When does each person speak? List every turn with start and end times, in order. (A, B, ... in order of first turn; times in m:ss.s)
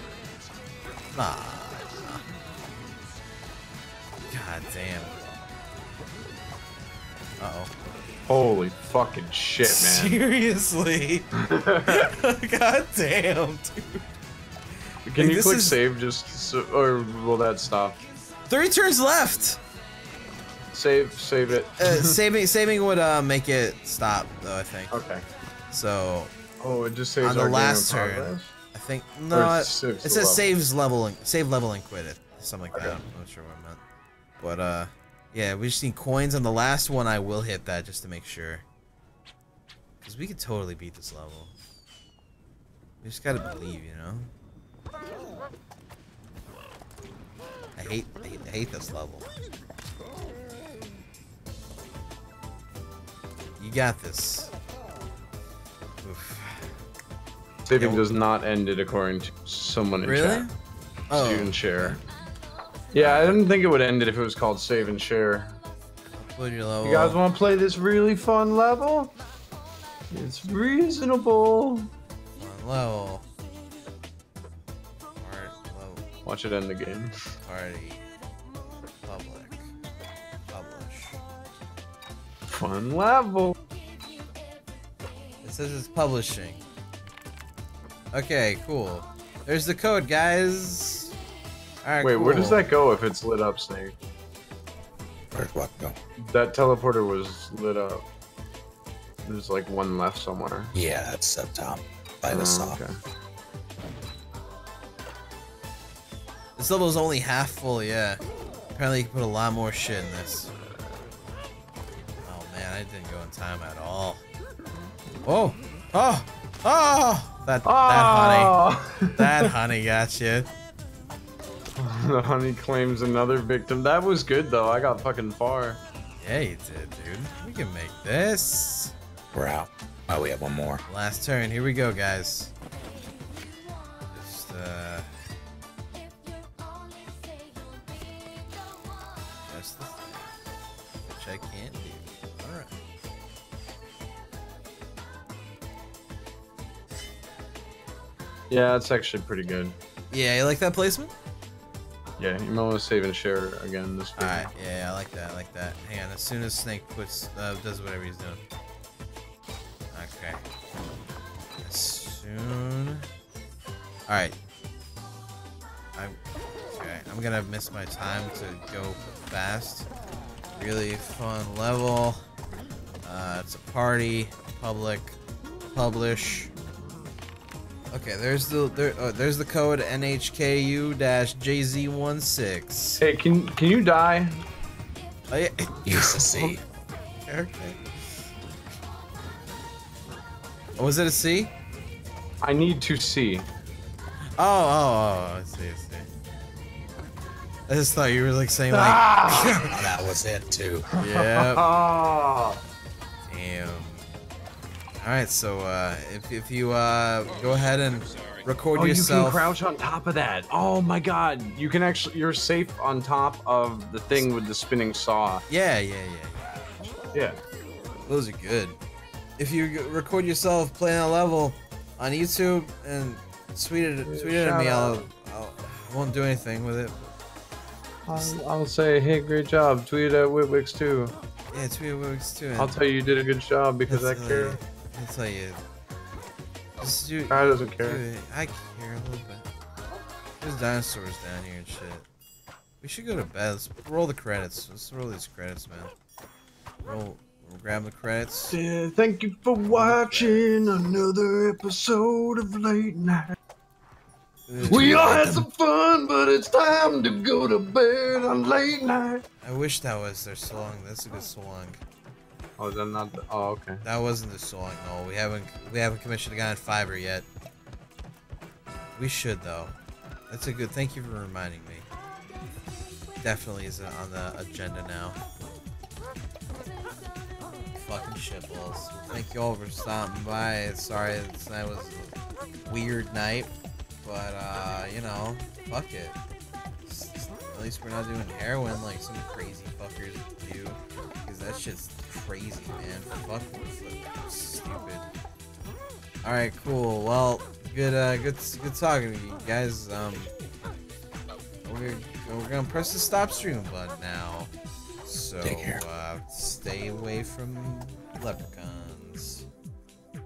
0:01.1-0:02.2 A
0:04.3-0:05.2 A
0:07.4-0:07.7 A
0:08.3-0:10.2 B
0:09.6-0:11.3 A
0:11.4-0:12.1 B
0:11.9-0:14.0 A
0:15.1-0:18.0 B
0:15.1-0:15.8 A
0:18.5-0:19.6 A
0:20.7-0:22.2 B
0:21.5-0:25.0 A
0:24.9-0:25.2 B
0:25.7-0:26.3 A
0:26.6-0:28.5 B
0:27.2-0:33.8 A
0:29.3-0:30.5 B
0:32.7-0:33.0 B
0:34.4-0:38.6 A
0:40.0-0:41.5 A
0:43.0-0:44.3 A
0:47.8-0:49.3 A
0:53.6-0:54.5 A
0:56.0-0:56.7 A
0:57.7-1:00.5 B
0:57.8-0:58.1 A
1:00.0-1:00.5 A
1:01.1-1:02.0 A
1:01.1-1:02.0 B
1:02.9-1:05.5 B
1:03.0-1:03.4 A
1:06.2-1:07.2 A
1:06.8-1:09.1 B
1:10.1-1:11.9 B
1:12.4-1:13.2 A
1:15.2-1:16.0 A
1:16.3-1:17.1 B
1:17.4-1:18.0 A
1:19.0-1:19.7 A
1:20.5-1:21.2 A
1:22.5-1:23.6 B
1:25.4-1:26.6 A
1:28.1-1:31.1 A
1:31.8-1:32.7 A
1:32.0-1:33.9 B
1:35.3-1:36.0 C
1:36.2-1:38.0 B
1:39.2-1:40.7 B
1:40.8-1:42.8 C
1:42.3-1:43.0 B
1:46.6-1:48.2 A
1:48.8-1:50.5 A
1:52.2-1:54.2 A
1:55.2-1:58.6 A
1:57.6-1:59.5 B
1:59.2-2:00.5 A
2:01.8-2:05.8 B
2:06.2-2:08.9 A
2:09.3-2:10.8 C
2:10.9-2:12.5 A
2:14.1-2:15.1 A
2:19.5-2:20.3 A
2:21.0-2:22.8 A
2:28.5-2:29.8 B
2:30.1-2:31.1 A
2:32.2-2:34.5 B
2:34.2-2:38.4 A
2:39.9-2:40.4 A
2:41.6-2:43.1 A
2:44.1-2:44.4 A
2:46.7-2:49.9 A
2:50.6-2:52.2 A
2:53.0-2:55.2 A
2:55.7-2:56.5 A
2:57.9-3:03.0 A
3:03.0-3:04.4 B
3:05.3-3:06.6 A
3:05.8-3:06.6 C
3:07.2-3:07.8 A
3:10.8-3:11.5 A
3:12.4-3:13.5 B
3:14.4-3:16.1 A
3:17.7-3:20.0 A
3:18.7-3:19.6 B
3:19.6-3:20.9 C
3:21.0-3:21.7 A
3:21.0-3:22.6 B
3:23.3-3:24.1 A
3:25.0-3:29.5 A
3:28.7-3:35.4 B
3:35.5-3:36.5 A
3:37.1-3:37.4 B
3:38.1-3:38.8 A
3:39.4-3:47.1 A
3:44.0-3:45.0 B
3:48.1-3:51.1 B
3:48.1-3:48.4 A
3:51.5-3:52.8 A
3:52.6-3:54.6 B
3:53.9-3:55.6 A
3:56.8-3:59.5 A
3:57.3-3:58.0 B
4:00.4-4:02.1 A
4:02.8-4:05.9 A
4:06.8-4:08.6 A
4:08.5-4:13.4 B
4:09.7-4:10.7 A
4:14.5-4:15.3 A
4:14.6-4:19.2 B
4:14.7-4:15.4 C
4:19.4-4:21.8 A
4:22.6-4:23.8 B
4:23.8-4:27.3 A
4:29.0-4:29.7 A
4:30.3-4:31.9 A
4:33.2-4:35.2 A
4:37.8-4:43.5 A
4:44.0-4:46.2 A
4:46.9-4:55.0 A
4:56.2-5:00.3 A
5:01.6-5:04.5 A
5:05.0-5:09.5 A
5:05.4-5:05.8 C